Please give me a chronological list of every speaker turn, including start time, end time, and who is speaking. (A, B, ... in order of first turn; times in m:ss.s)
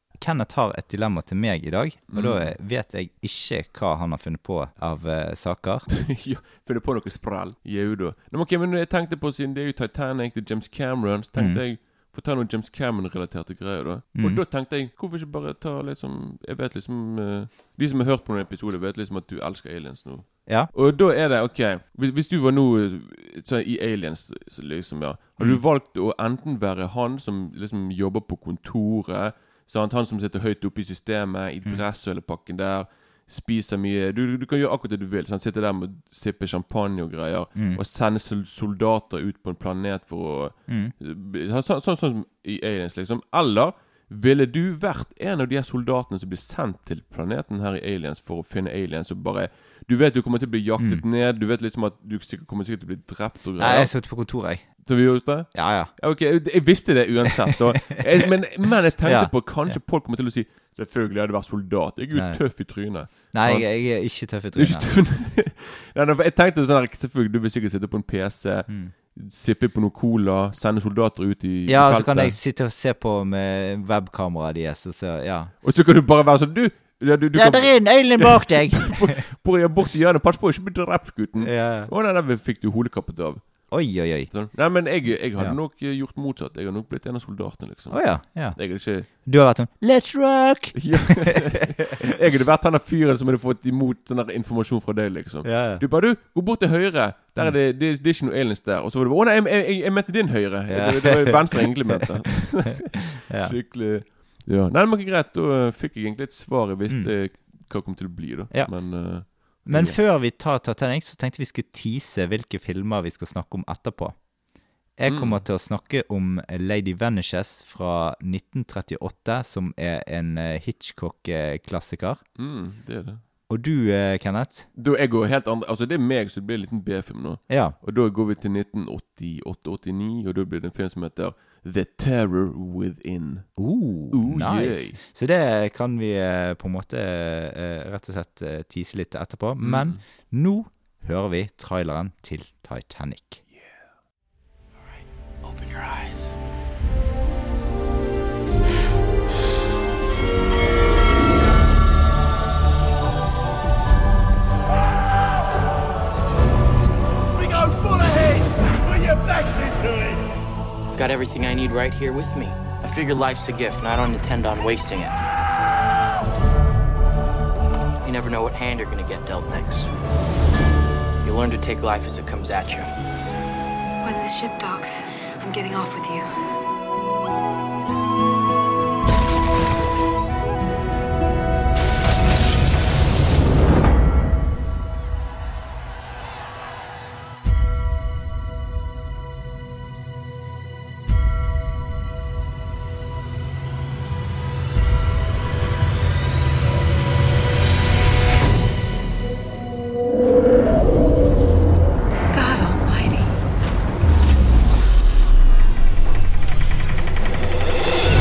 0:00.2-0:05.8 A
0:02.1-0:02.5 B
0:05.9-0:53.9 B
0:11.4-0:11.6 A
0:14.2-0:14.4 A
0:37.5-0:37.8 A
0:40.7-0:40.9 A
0:53.6-0:54.7 A
0:54.8-1:03.7 B
0:55.5-0:55.9 A
0:59.0-0:59.8 A
1:02.1-1:02.4 A
1:03.3-1:04.9 A
1:04.5-1:12.4 B
1:08.7-1:08.9 A
1:11.7-1:15.5 A
1:15.6-1:23.4 B
1:17.4-1:19.2 A
1:21.4-1:21.9 A
1:23.7-1:24.3 A
1:24.3-1:29.1 B
1:27.9-1:31.8 A
1:30.7-1:50.0 B
1:35.4-1:35.8 A
1:40.7-1:43.6 A
1:49.2-1:54.2 A
1:55.0-2:02.2 A
1:55.1-1:55.4 B
2:02.4-2:03.2 B
2:03.5-2:04.7 A
2:04.7-2:13.6 B
2:07.5-2:07.8 A
2:13.6-2:23.4 A
2:14.1-2:15.0 B
2:19.6-2:20.0 B
2:24.9-2:26.3 C
2:37.6-2:38.5 C
2:39.0-2:40.2 C
2:40.9-2:45.2 C
2:48.0-2:49.9 C
2:51.2-2:52.9 C
2:54.0-2:56.3 D
3:22.3-3:23.3 D